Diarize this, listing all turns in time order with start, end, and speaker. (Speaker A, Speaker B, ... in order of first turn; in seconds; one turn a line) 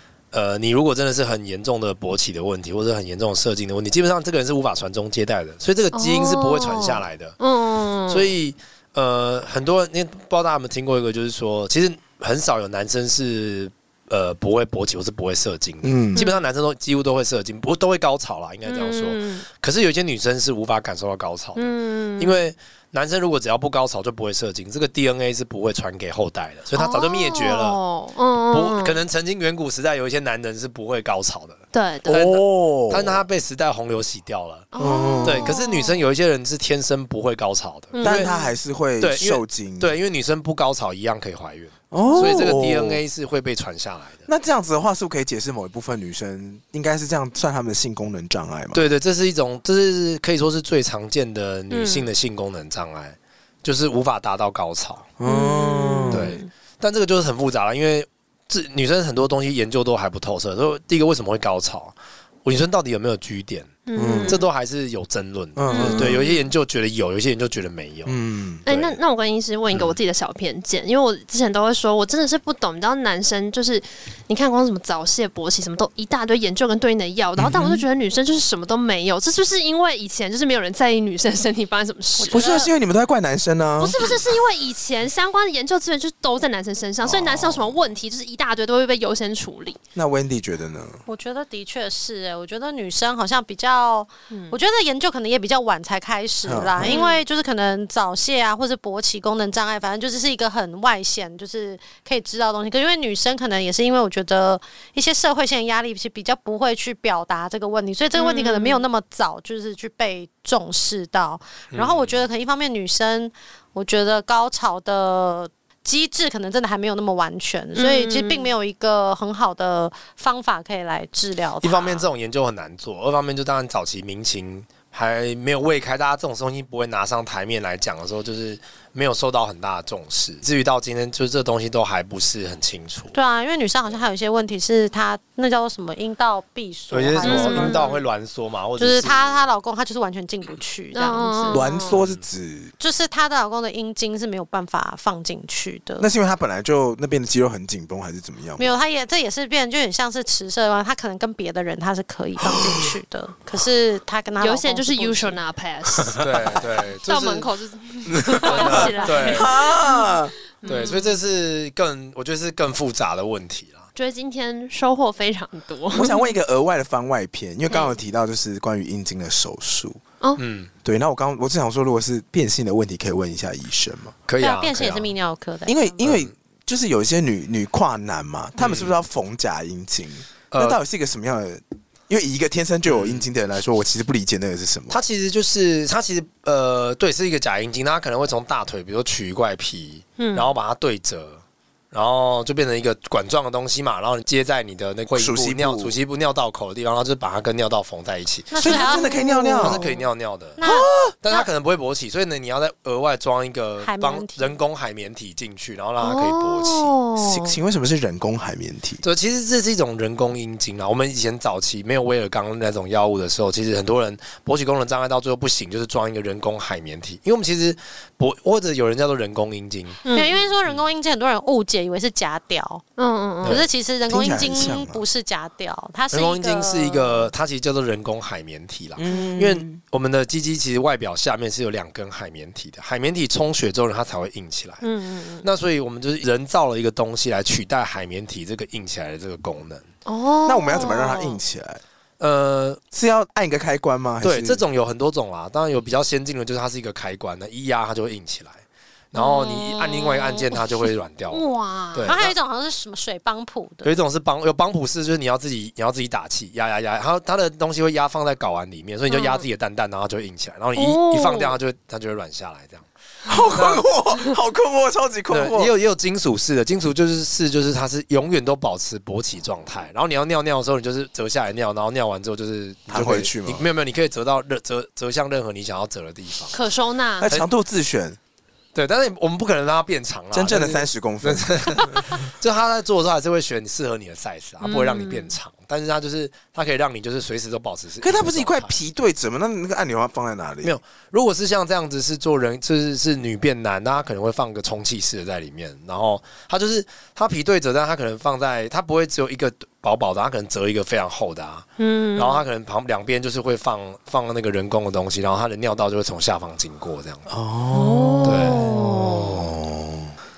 Speaker A: 0.3-7.3
Speaker B: 5.9-8.3
Speaker A: 8.1-27.8
Speaker C: 15.8-16.2
Speaker B: 16.1-16.4
Speaker B: 18.6-19.4
Speaker B: 21.5-22.4
Speaker B: 26.7-29.0
Speaker A: 28.5-34.7
Speaker B: 31.7-32.2
Speaker C: 32.1-33.2
Speaker B: 34.7-36.0
Speaker C: 34.8-35.5
Speaker A: 35.2-38.3
Speaker B: 37.9-38.5
Speaker C: 38.0-40.0
Speaker A: 39.0-44.2
Speaker C: 41.9-43.0
Speaker C: 44.3-48.8
Speaker A: 48.7-55.0
Speaker B: 51.7-52.1
Speaker C: 55.2-56.4
Speaker B: 55.2-56.5
Speaker A: 56.1-61.9
Speaker A: 62.4-69.0
Speaker B: 63.9-64.5
Speaker C: 64.0-64.4
Speaker C: 65.5-66.3
Speaker B: 65.7-66.5
Speaker C: 68.0-68.6
Speaker B: 68.7-82.7
Speaker C: 77.4-77.8
Speaker D: 82.2-82.7
Speaker C: 82.3-84.3
Speaker B: 83.8-89.8
Speaker C: 87.0-87.7
Speaker C: 89.9-91.0
Speaker D: 91.1-122.1
Speaker B: 94.3-94.5
Speaker C: 96.5-97.0
Speaker B: 96.8-97.2
Speaker B: 108.1-108.8
Speaker A: 111.7-112.2
Speaker B: 117.8-118.5
Speaker A: 121.6-133.1
Speaker D: 133.1-137.9
Speaker A: 136.9-139.5
Speaker B: 137.2-138.0
Speaker D: 138.8-141.7
Speaker B: 140.9-142.0
Speaker C: 141.5-142.7
Speaker A: 141.9-142.2
Speaker D: 142.8-146.1
Speaker C: 146.0-148.8
Speaker D: 148.6-155.4
Speaker C: 152.4-152.9
Speaker B: 154.4-161.2
Speaker A: 156.2-157.5
Speaker C: 158.1-160.3
Speaker A: 158.4-159.5
Speaker A: 160.6-163.8
Speaker B: 163.9-166.2
Speaker C: 165.9-170.0
Speaker B: 167.7-167.9
Speaker A: 170.4-170.7
Speaker C: 170.8-174.1
Speaker A: 174.2-175.1
Speaker D: 174.4-176.0
Speaker C: 175.7-185.0
Speaker A: 176.0-176.3
Speaker A: 178.6-178.9
Speaker A: 180.5-180.8
Speaker A: 182.8-183.2
Speaker A: 184.9-199.1
Speaker B: 190.2-190.5
Speaker C: 195.1-195.9
Speaker D: 198.5-199.9
Speaker C: 198.6-199.8
Speaker A: 199.6-200.6
Speaker D: 200.6-201.5
Speaker C: 200.6-201.1
Speaker A: 201.2-206.9
Speaker D: 203.8-204.6
Speaker B: 206.0-207.6
Speaker C: 207.2-209.0
Speaker A: 209.0-220.0
Speaker B: 220.0-220.4
Speaker D: 220.1-222.8
Speaker B: 223.0-223.6
Speaker D: 223.4-227.3
Speaker C: 224.1-225.0
Speaker A: 226.1-234.8
Speaker C: 228.9-229.8
Speaker B: 234.8-235.4
Speaker A: 235.4-239.9
Speaker B: 240.1-241.4
Speaker C: 240.4-241.8
Speaker A: 242.2-242.8
Speaker C: 242.9-244.6
Speaker A: 244.2-248.6
Speaker A: 249.1-252.3
Speaker B: 249.2-249.7
Speaker D: 249.7-250.5
Speaker B: 251.3-252.2
Speaker D: 252.0-253.9
Speaker A: 253.8-262.9
Speaker B: 259.1-259.4
Speaker B: 260.8-261.6
Speaker C: 263.2-265.7
Speaker A: 263.5-263.8
Speaker A: 265.3-276.6
Speaker C: 272.9-273.6
Speaker B: 276.5-277.3
Speaker C: 277.2-278.2
Speaker A: 278.7-288.7
Speaker C: 280.3-282.1
Speaker B: 284.6-285.3
Speaker C: 288.0-290.8
Speaker A: 290.6-307.3
Speaker B: 301.8-302.4
Speaker C: 307.3-310.1
Speaker B: 307.7-308.9
Speaker A: 308.2-309.5